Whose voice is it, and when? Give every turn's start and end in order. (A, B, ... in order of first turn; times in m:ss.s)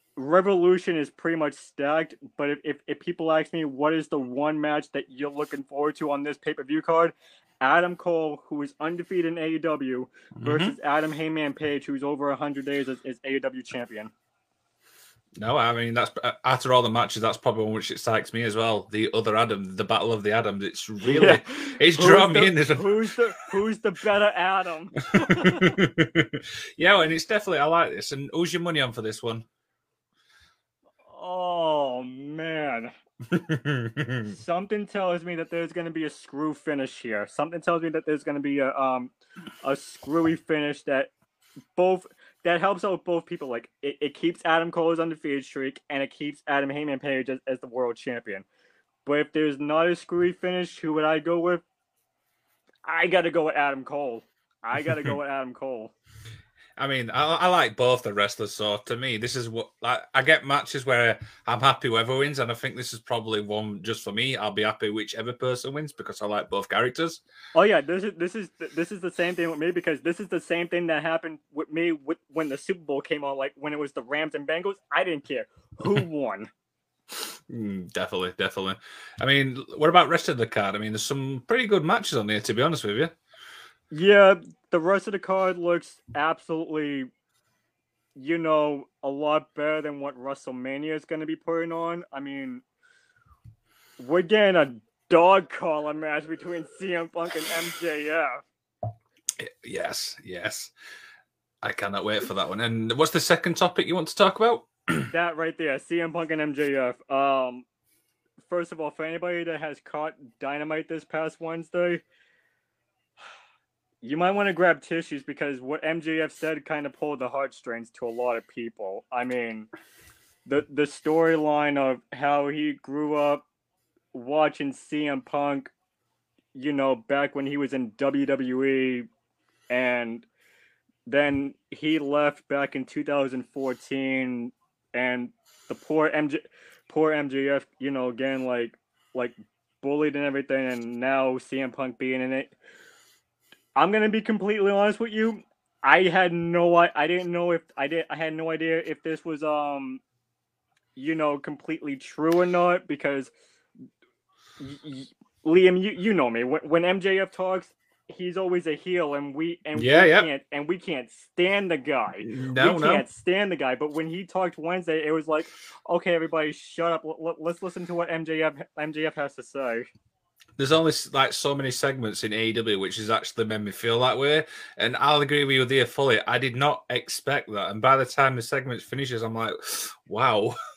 0:00.2-0:14.1 A
0:10.4-0:10.8 B
0:15.4-0:23.0 B
0:21.0-0:25.8 A
0:25.2-0:29.4 B
0:31.0-0:32.9 A
0:33.3-0:34.4 B
0:34.3-0:41.1 A
0:41.8-0:48.4 A
0:49.0-0:51.6 A
0:52.9-0:55.9 A
0:56.8-1:07.2 B
1:07.5-1:16.5 A
1:17.5-1:23.1 B
1:23.9-1:27.1 A
1:28.2-1:32.6 A
1:34.0-1:38.4 A
1:39.4-1:40.7 B
1:41.6-1:45.1 B
1:45.1-1:47.6 A
1:48.5-1:52.0 A
1:54.0-1:59.7 A
2:00.4-2:03.4 A
2:04.1-2:05.7 A
2:06.5-2:09.1 A
2:09.7-2:10.2 A
2:11.0-2:22.5 A
2:23.8-2:30.0 A
2:31.0-2:33.3 A
2:34.6-2:49.9 A
2:39.8-2:40.3 B
2:42.2-2:43.0 B
2:50.6-3:00.5 B